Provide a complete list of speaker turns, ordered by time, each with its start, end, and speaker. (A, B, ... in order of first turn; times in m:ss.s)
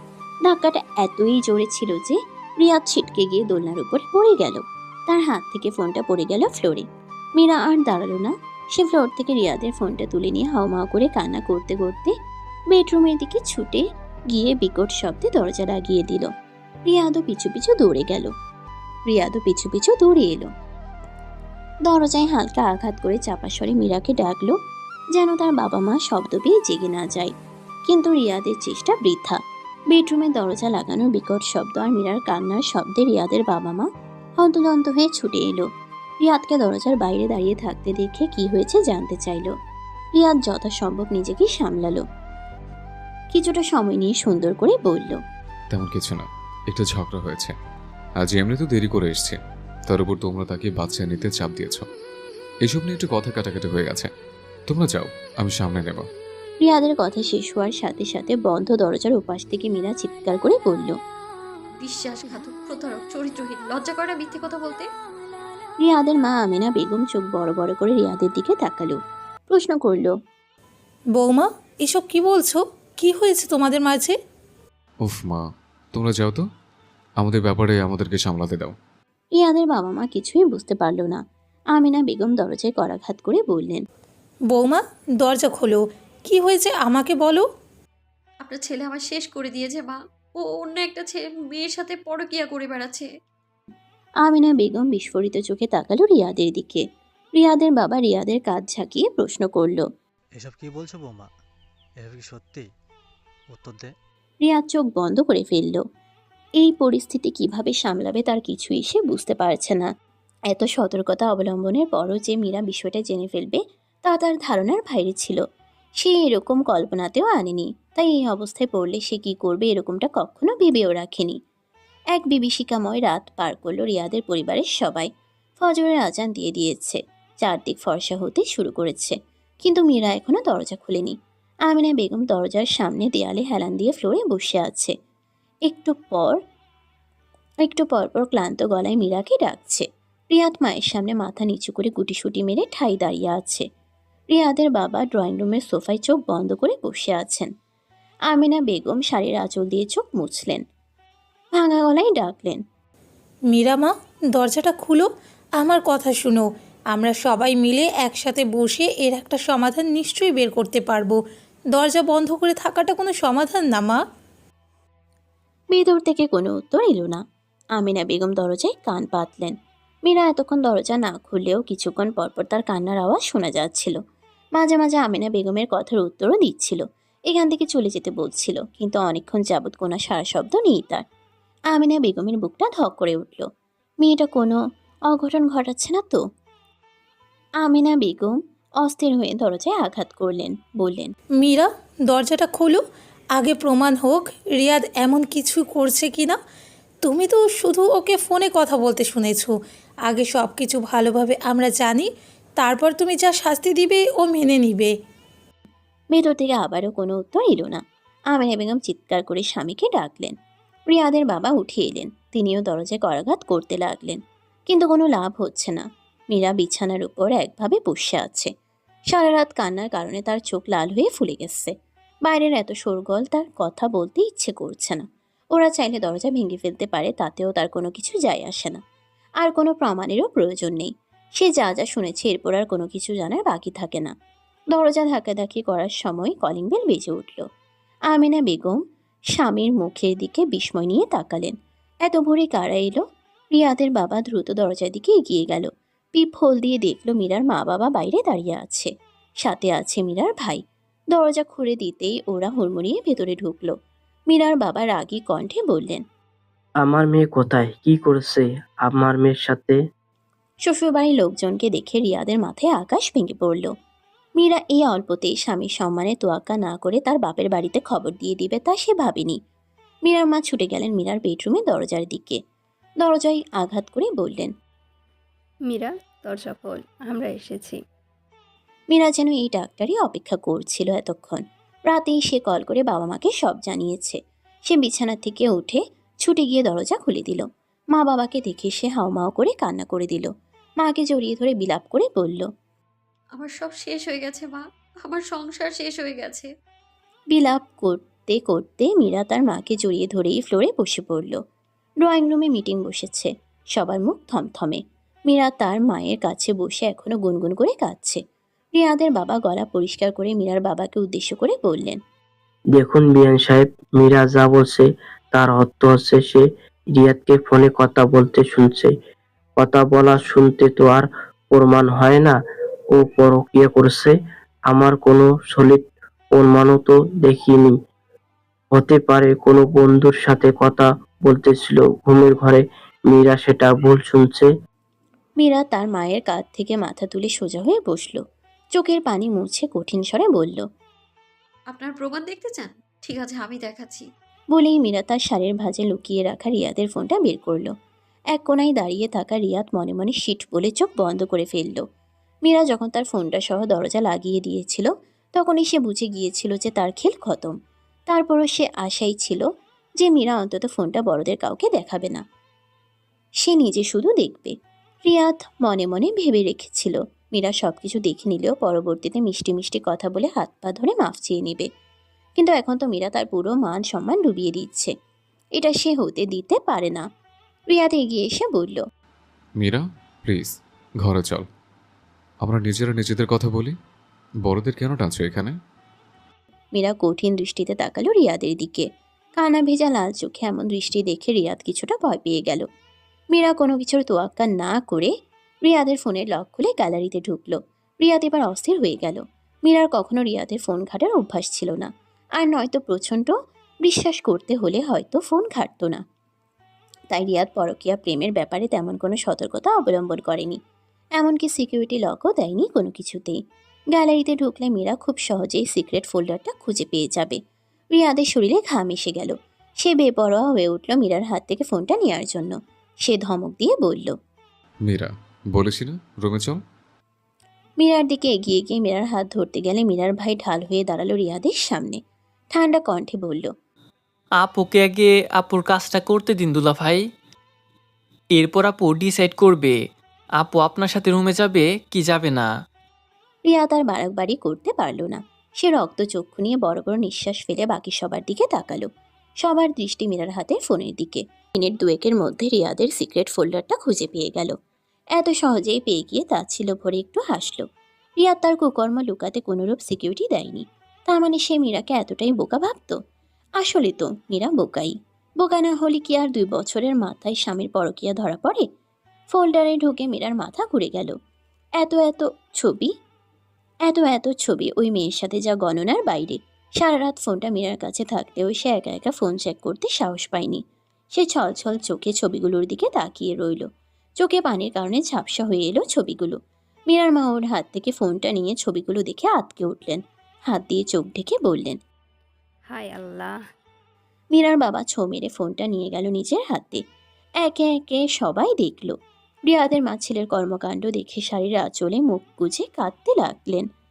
0:00.5-0:12.2 A
0:12.7-0:16.3 A
0:16.9-0:18.3 A
0:19.1-0:20.5 A
0:21.8-0:24.6 A
0:25.2-0:27.3 A
0:27.9-0:29.4 A
0:29.9-0:35.7 A
0:36.2-0:39.6 A
0:40.2-0:42.0 A
0:43.3-0:45.2 A
0:45.7-0:47.6 B
0:48.2-0:51.9 B
0:52.6-0:54.1 B
0:54.7-0:56.0 B
0:56.6-1:01.0 A
1:01.8-1:04.9 C
1:05.8-1:09.0 A
1:09.5-1:10.1 A
1:11.2-1:14.2 D
1:15.0-1:16.4 B
1:17.2-1:18.8 B
1:19.4-1:21.2 A
1:21.8-1:23.8 A
1:24.5-1:27.5 D
1:28.4-1:33.1 C
1:34.2-1:36.8 A
1:37.4-1:39.9 A
1:40.4-1:41.3 E
1:42.0-1:42.7 E
1:43.5-1:43.9 E
1:44.4-1:45.8 A
1:46.6-1:49.9 A
1:50.5-1:55.4 A
1:56.0-2:01.4 A
2:02.1-2:05.1 A
2:05.6-2:11.2 A
2:11.7-2:14.9 A
2:15.7-2:16.4 A
2:17.6-2:23.6 A
2:24.3-2:27.5 A
2:28.3-2:30.6 A
2:31.6-2:32.6 A
2:33.5-2:41.2 D
2:41.7-2:44.0 D
2:45.7-2:47.2 A
2:47.8-2:49.6 A
2:50.1-2:54.0 A
2:54.6-3:01.0 A
3:01.7-3:03.5 A
3:04.0-3:04.6 A
3:05.1-3:06.2 A
3:07.6-3:11.1 A
3:11.4-3:12.8 D
3:13.4-3:16.4 D
3:17.0-3:19.6 D
3:20.1-3:24.9 D
3:26.1-3:27.8 A
3:28.3-3:30.4 A
3:30.9-3:38.5 A
3:39.1-3:41.7 A
3:42.2-3:48.8 A
3:49.4-3:54.1 A
3:54.7-3:57.5 A
3:58.1-3:58.8 A
3:59.4-4:01.6 A
4:02.1-4:08.9 A
4:09.4-4:10.6 A
4:11.1-4:13.8 A
4:14.3-4:16.0 A
4:16.8-4:19.8 F
4:20.6-4:23.7 A
4:24.4-4:29.4 A
4:30.1-4:32.4 A
4:33.0-4:34.5 A
4:35.7-4:37.8 G
4:38.9-4:50.3 A
4:50.8-4:52.5 A
4:53.4-4:56.5 C
4:57.3-5:01.4 A
5:02.0-5:08.2 A
5:08.8-5:12.0 A
5:12.8-5:18.9 F
5:19.6-5:22.4 F
5:22.9-5:24.2 F
5:24.7-5:27.8 F
5:28.7-5:34.5 F
5:35.4-5:38.2 A
5:38.8-5:40.6 A
5:41.7-5:44.1 C
5:44.5-5:47.7 A
5:48.3-5:51.8 A
5:52.5-5:57.5 A
5:58.1-5:59.4 A
6:00.0-6:02.2 A
6:03.4-6:11.7 A
6:12.4-6:14.9 A
6:15.6-6:17.0 A
6:17.7-6:18.8 A
6:19.6-6:21.5 B
6:22.4-6:23.8 B
6:24.4-6:25.6 B
6:26.8-6:28.9 A
6:29.4-6:32.7 A
6:33.3-6:35.1 A
6:35.6-6:46.0 A
6:47.1-6:50.6 A
6:51.2-6:53.4 A
6:53.9-6:57.4 A
6:58.0-7:04.2 A
7:04.8-7:06.6 B
7:07.8-7:12.0 A
7:12.5-7:13.5 A
7:14.4-7:17.0 H
7:18.3-7:19.8 H
7:20.4-7:22.5 H
7:23.5-7:28.9 A
7:29.4-7:34.6 A
7:35.2-7:37.7 A
7:38.2-7:43.0 A
7:43.6-7:48.7 A
7:49.3-7:51.2 A
7:51.8-7:52.9 A
7:53.9-8:00.6 A
8:01.2-8:03.7 A
8:04.2-8:06.4 A
8:06.9-8:11.8 A
8:12.7-8:13.4 G
8:14.3-8:16.8 A
8:17.4-8:19.0 A
8:19.5-8:23.7 A